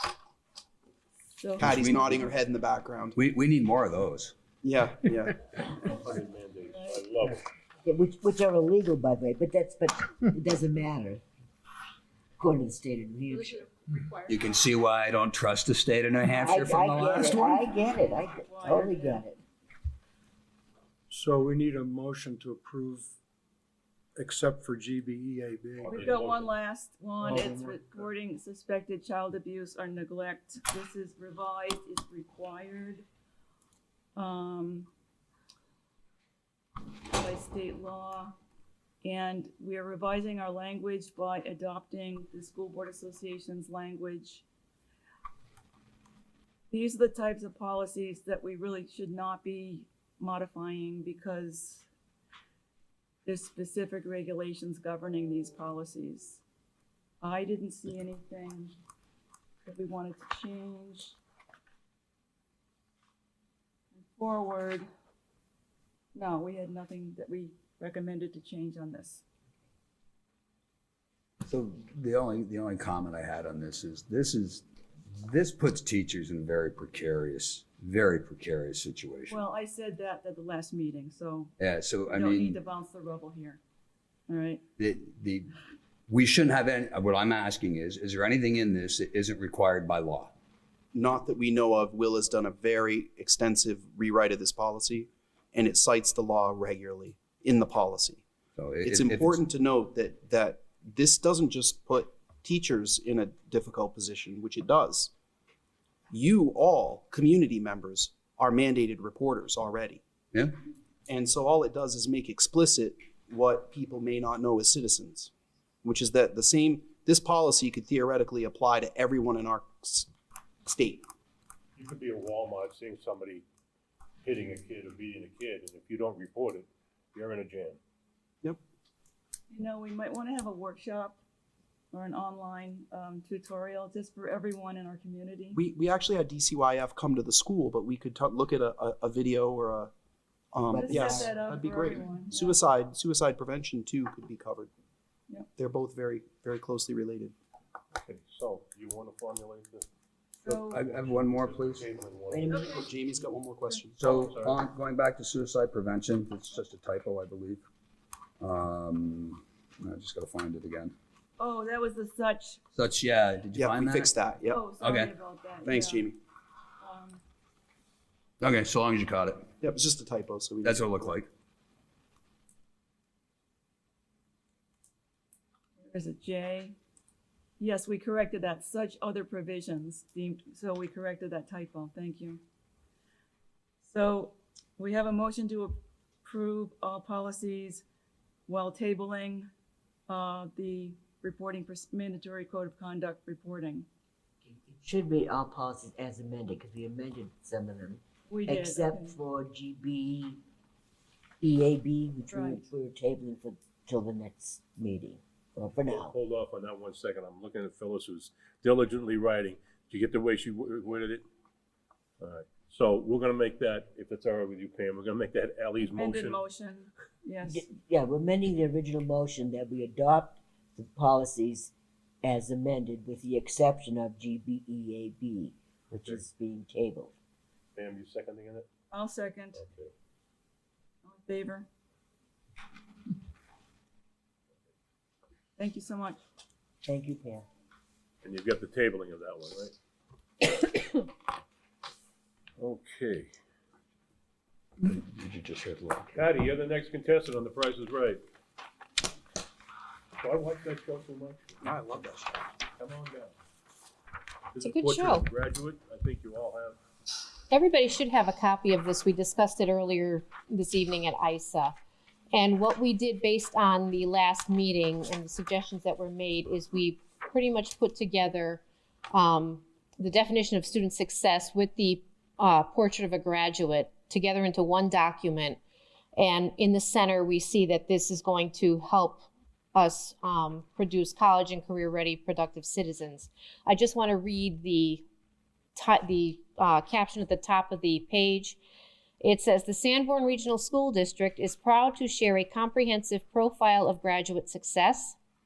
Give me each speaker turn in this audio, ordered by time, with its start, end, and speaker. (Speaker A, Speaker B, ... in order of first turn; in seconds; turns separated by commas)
Speaker A: 1.3-1.6, Speaker B: 1.6-3.2, Speaker C: 1.6-2.3, Speaker C: 3.2-4.3, Speaker B: 4.6-5.4, Speaker D: 5.9-7.4, Speaker E: 7.8-11.2, Speaker E: 12.4-13.7, Speaker C: 14.3-17.7, Speaker E: 16.4-19.4, Speaker A: 18.1-19.2, Speaker F: 21.1-23.1, Speaker F: 24.2-25.9, Speaker D: 25.8-26.6, Speaker A: 25.9-33.0, Speaker F: 27.2-28.1, Speaker A: 34.2-34.9, Speaker A: 37.1-38.3, Speaker A: 39.0-44.5, Speaker A: 46.7-51.9, Speaker A: 53.3-56.4, Speaker A: 57.2-58.8, Speaker A: 59.6-61.2, Speaker A: 64.0-64.9, Speaker A: 66.2-69.2, Speaker C: 71.5-79.4, Speaker A: 79.3-81.5, Speaker C: 81.6-82.6, Speaker A: 82.1-83.6, Speaker A: 84.3-84.6, Speaker C: 84.8-85.5, Speaker C: 86.1-90.3, Speaker B: 90.9-98.2, Speaker C: 98.6-99.4, Speaker B: 98.8-105.1, Speaker B: 106.1-110.0, Speaker B: 111.1-115.3, Speaker B: 115.8-120.1, Speaker B: 120.7-121.1, Speaker D: 121.8-123.4, Speaker D: 124.2-127.8, Speaker A: 129.5-131.2, Speaker A: 131.9-135.6, Speaker B: 135.5-139.9, Speaker B: 140.5-144.7, Speaker E: 140.7-141.4, Speaker A: 140.8-142.6, Speaker B: 145.6-147.3, Speaker D: 147.9-149.9, Speaker A: 150.4-150.8, Speaker C: 150.4-151.9, Speaker D: 150.8-152.8, Speaker E: 152.3-152.9, Speaker B: 152.7-154.0, Speaker C: 154.0-157.6, Speaker D: 154.0-154.6, Speaker C: 158.4-160.9, Speaker A: 161.4-162.6, Speaker C: 162.8-164.1, Speaker B: 163.5-164.6, Speaker A: 164.5-166.1, Speaker C: 164.8-165.1, Speaker B: 165.6-166.2, Speaker A: 166.8-167.2, Speaker C: 168.4-169.4, Speaker B: 169.6-171.2, Speaker C: 170.6-171.3, Speaker A: 175.8-176.8, Speaker A: 177.6-182.4, Speaker A: 183.8-187.8, Speaker A: 188.5-189.5, Speaker A: 190.1-193.9, Speaker E: 194.4-200.4, Speaker A: 198.3-199.2, Speaker E: 201.4-206.2, Speaker A: 202.3-202.6, Speaker D: 205.9-211.2, Speaker D: 212.2-216.4, Speaker A: 215.9-217.7, Speaker E: 217.4-221.7, Speaker E: 222.2-227.1, Speaker D: 226.0-226.2, Speaker D: 227.8-228.7, Speaker A: 228.9-229.6, Speaker D: 229.5-229.9, Speaker A: 231.1-231.7, Speaker A: 235.6-236.2, Speaker E: 236.9-237.4, Speaker D: 238.2-239.8, Speaker D: 242.6-243.3, Speaker C: 244.8-246.3, Speaker D: 246.1-248.2, Speaker D: 250.2-251.6, Speaker B: 251.6-252.5, Speaker D: 252.8-253.3, Speaker D: 254.5-256.8, Speaker G: 254.6-255.3, Speaker G: 257.5-261.7, Speaker G: 262.3-275.6, Speaker G: 276.2-285.0, Speaker G: 285.8-288.6, Speaker G: 289.2-295.2